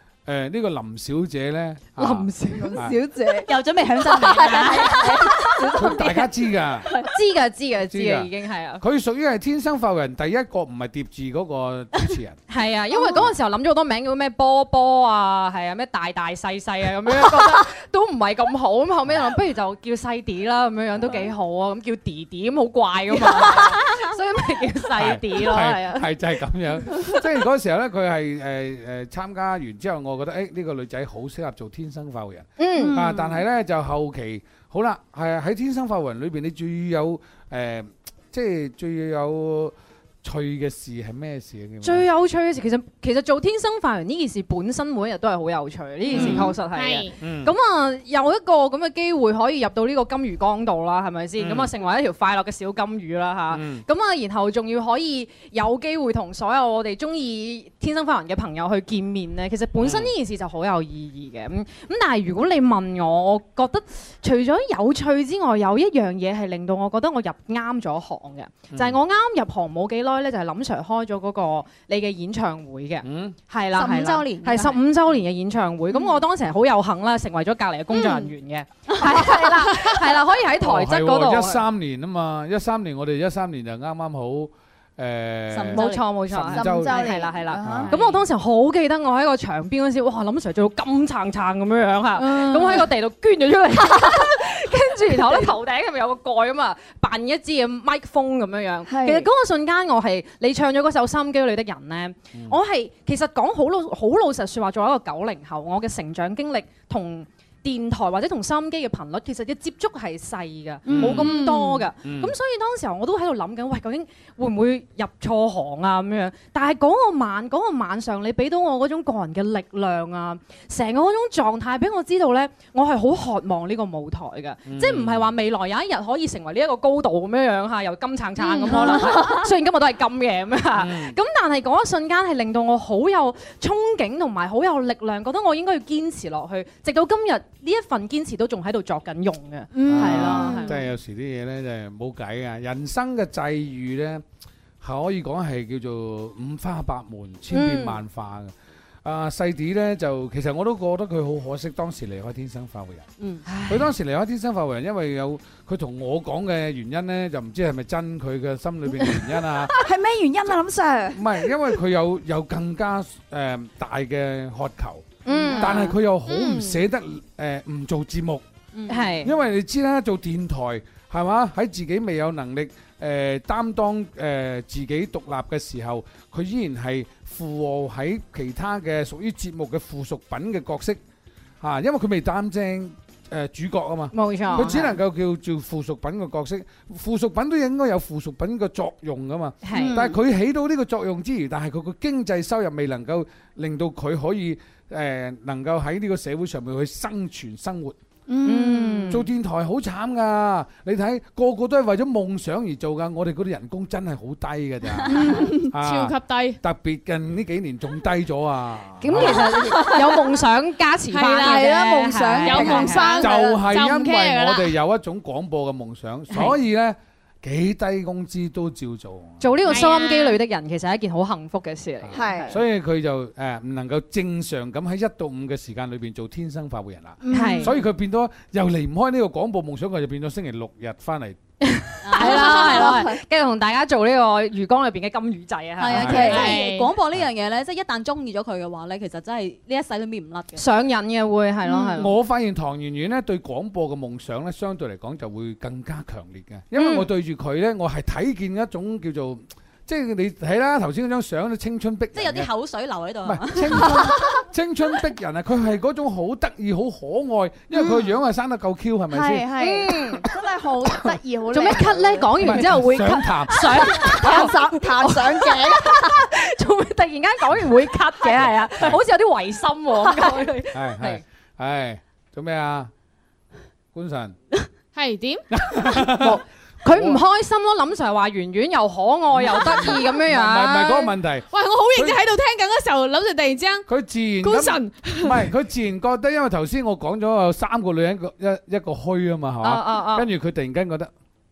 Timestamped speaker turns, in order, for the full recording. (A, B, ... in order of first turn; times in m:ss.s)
0:00.2-0:03.0 A
0:02.0-0:02.8 B
0:02.5-0:06.3 C
0:03.3-0:06.0 D
0:05.7-0:06.9 A
0:06.8-0:07.1 C
0:07.0-0:08.8 B
0:07.9-0:08.3 A
0:08.8-0:12.4 A
0:12.5-0:26.1 B
0:12.9-0:13.2 C
0:24.9-0:42.1 A
0:32.6-0:33.0 B
0:32.7-0:33.4 C
0:41.8-1:21.6 B
0:46.1-0:47.1 E
0:46.1-0:46.5 A
0:47.2-0:47.5 A
0:51.4-0:51.7 A
0:53.5-0:53.8 A
0:59.8-1:00.1 A
1:08.7-1:09.0 A
1:13.0-1:13.4 A
1:13.7-1:14.8 D
1:17.9-1:18.3 E
1:19.0-1:19.6 C
1:20.6-1:27.9 A
1:25.5-1:26.1 D
1:25.7-2:20.8 B
1:26.5-1:28.2 C
1:32.2-1:32.9 C
1:35.1-1:35.5 C
1:38.9-1:39.3 C
1:42.3-1:42.6 A
1:50.9-1:51.4 A
1:51.1-1:51.9 E
1:52.0-1:52.3 A
2:04.6-2:05.3 A
2:08.6-2:09.5 C
2:10.7-2:11.2 A
2:19.7-2:20.6 C
2:19.8-2:24.2 A
2:20.4-2:20.7 E
2:24.8-2:28.5 A
2:27.5-2:28.0 B
2:29.0-2:33.0 A
2:33.4-2:33.9 B
2:33.6-2:39.7 A
2:39.8-2:41.5 C
2:41.1-2:48.4 A
2:45.2-2:45.9 B
2:46.3-2:46.8 E
2:48.7-2:49.1 D
2:48.9-2:49.3 B
2:49.2-3:01.0 A
3:01.6-3:18.0 A
3:04.1-3:05.0 B
3:09.6-3:10.0 B
3:09.7-3:10.2 C
3:18.3-3:19.2 C
3:18.4-3:19.3 B
3:19.1-3:29.6 A
3:25.1-3:25.7 C
3:25.7-3:26.6 E
3:29.0-3:33.2 B
3:29.1-3:30.4 C
3:31.1-3:31.7 E
3:31.3-3:33.6 C
3:32.4-3:34.7 E
3:33.2-3:39.5 A
3:39.4-3:42.6 B
3:39.6-3:40.4 E
3:42.0-3:51.4 A
3:42.1-3:42.6 C
3:47.2-3:47.8 C
3:47.3-3:47.7 B
3:51.6-3:56.5 B
3:52.0-3:53.0 D
3:52.2-3:53.1 C
3:55.8-4:00.6 D
3:55.8-3:56.6 C
3:55.9-3:56.4 A
3:56.1-3:56.9 E
4:00.6-4:02.1 B
4:01.7-4:02.0 C
4:02.0-4:12.5 A
4:06.7-4:07.1 B
4:12.1-4:13.9 D
4:13.2-4:19.5 A
4:14.0-4:14.3 C
4:17.7-4:18.1 C
4:19.1-4:22.7 C
4:19.6-4:20.2 B
4:21.5-4:31.2 B
4:22.4-4:24.2 A
4:23.8-4:26.2 C
4:28.4-4:29.0 A
4:30.7-4:32.9 A
4:33.9-4:34.4 A
4:34.9-4:35.4 E
4:35.5-4:37.2 A
4:36.1-4:41.1 B
4:39.3-4:42.2 A
4:41.5-4:43.8 E
4:43.9-4:51.1 A
4:44.4-4:45.4 E
4:49.6-4:50.3 B